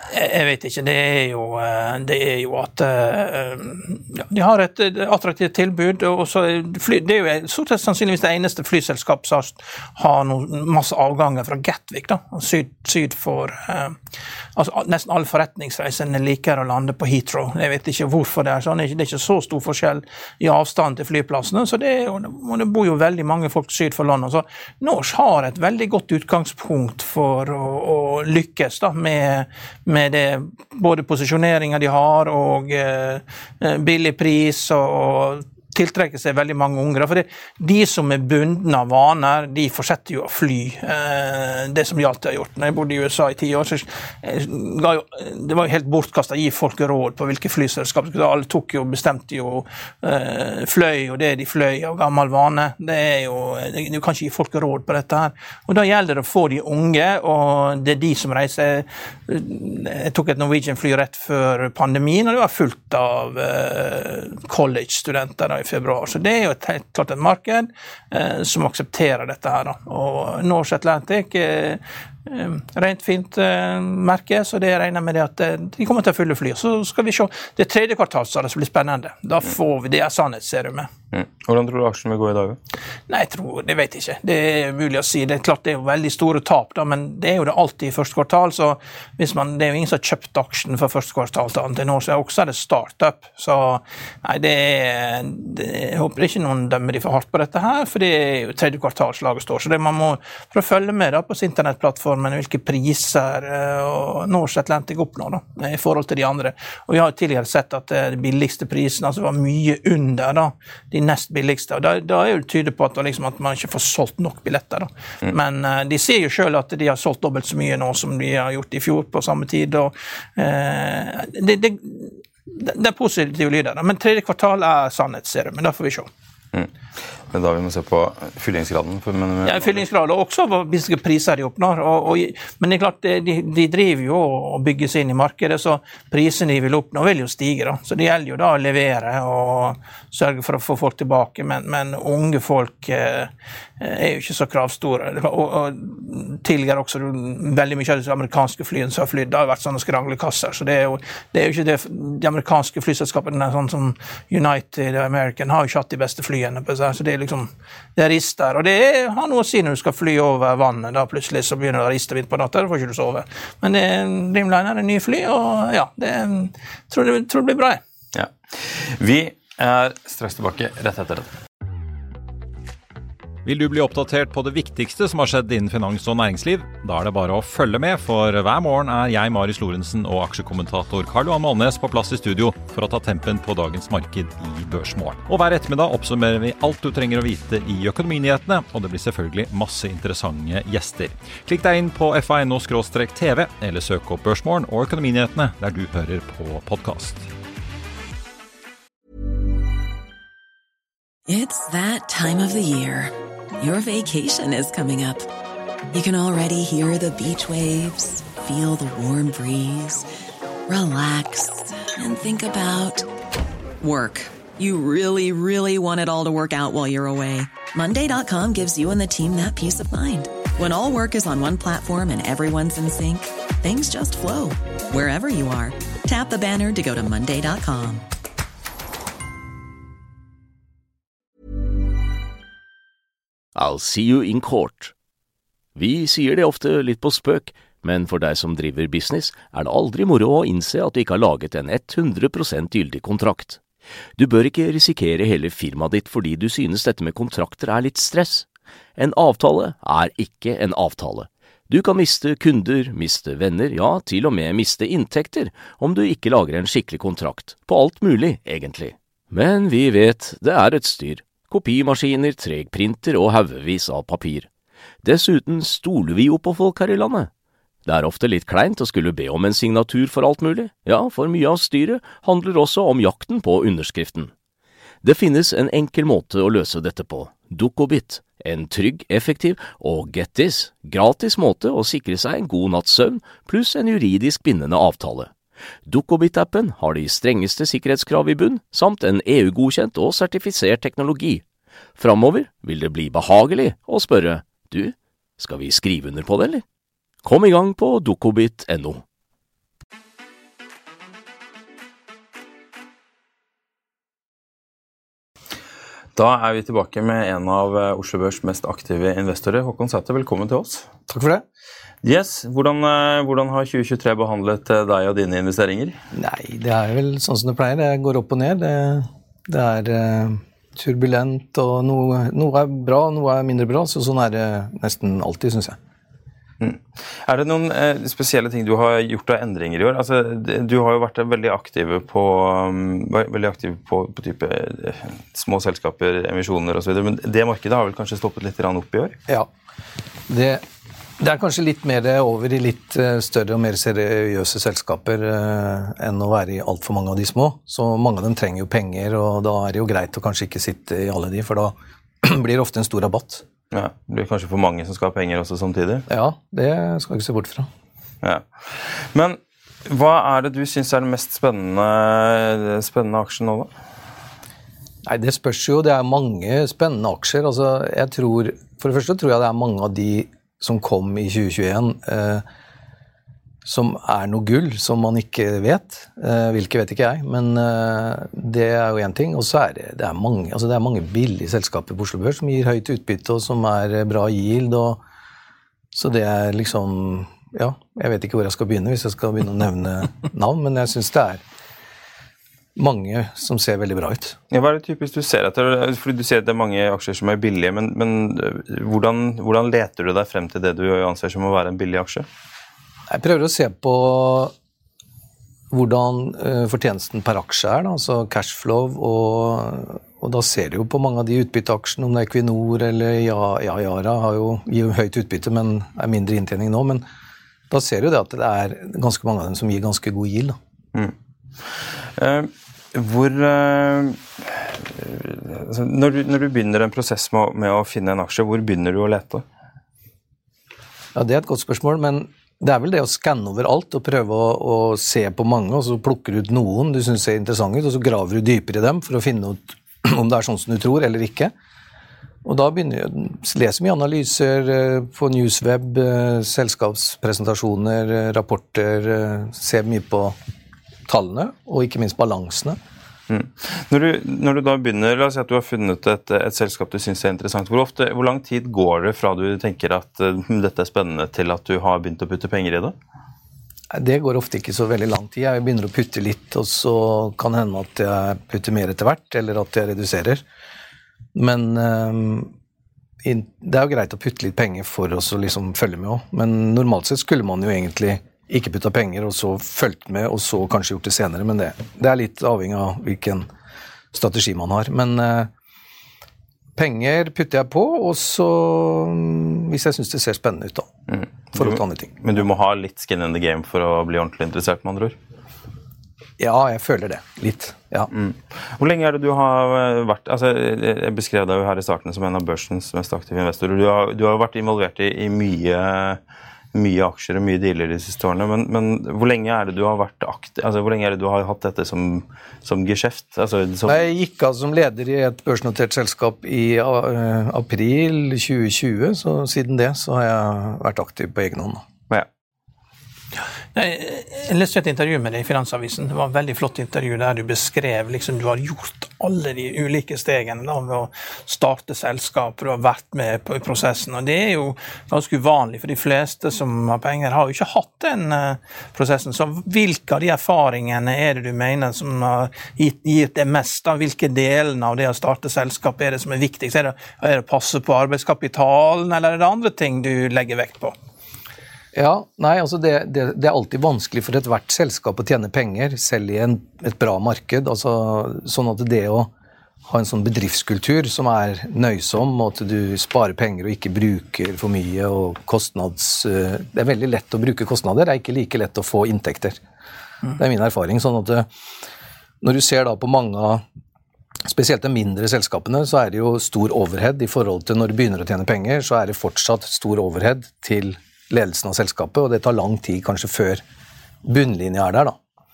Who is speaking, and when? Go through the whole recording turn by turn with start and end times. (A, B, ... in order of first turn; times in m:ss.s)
0:00.1-0:14.0 A
0:14.6-1:20.9 A
1:21.1-1:22.6 B
1:23.1-2:06.1 A
2:07.3-2:09.8 B
2:09.4-2:47.8 A
2:48.2-2:51.3 B
2:53.4-3:17.3 C
3:21.3-3:25.3 D
3:25.9-3:30.1 D
3:30.7-3:33.1 D
3:33.8-3:48.1 D
3:53.6-3:54.9 E
3:55.8-4:03.6 E
4:04.2-4:24.5 E
4:25.0-4:27.3 E
4:27.8-4:34.3 E
4:35.0-4:45.3 E
4:45.9-4:51.4 E
4:52.0-4:56.6 E
4:57.2-4:59.0 E
5:06.2-5:10.9 B
5:11.1-5:11.4 F
5:12.0-5:16.0 B
5:16.1-5:25.8 F
5:26.6-5:39.2 B
5:40.3-5:40.6 F
5:41.2-5:53.4 F
5:53.7-5:56.0 B
5:56.1-5:57.7 F
5:58.2-6:03.7 B
6:05.1-6:12.4 F
6:13.6-6:25.0 F
6:25.9-6:31.4 F
6:32.8-6:34.4 F
6:34.5-6:42.3 B
6:43.1-6:44.5 F
6:45.7-6:57.0 F
6:57.7-7:00.6 F
7:02.2-7:09.4 B
7:11.2-7:21.5 F
7:22.4-7:30.4 F
7:31.1-7:32.8 F
7:33.3-7:43.0 B
7:43.9-7:50.4 F
7:51.4-7:52.5 F
7:53.2-8:03.5 F
8:04.1-8:05.5 F
8:06.8-8:10.9 F
8:11.1-8:15.2 B
8:11.6-8:12.2 F
8:16.4-8:18.1 F
8:18.1-8:26.2 B
8:26.7-8:34.0 B
8:33.9-8:41.8 F
8:43.4-9:11.0 A
9:11.9-9:19.3 F
9:19.8-9:29.6 F
9:30.4-9:31.5 F
9:32.4-9:33.6 F
9:34.4-9:43.6 F
9:44.2-9:45.2 F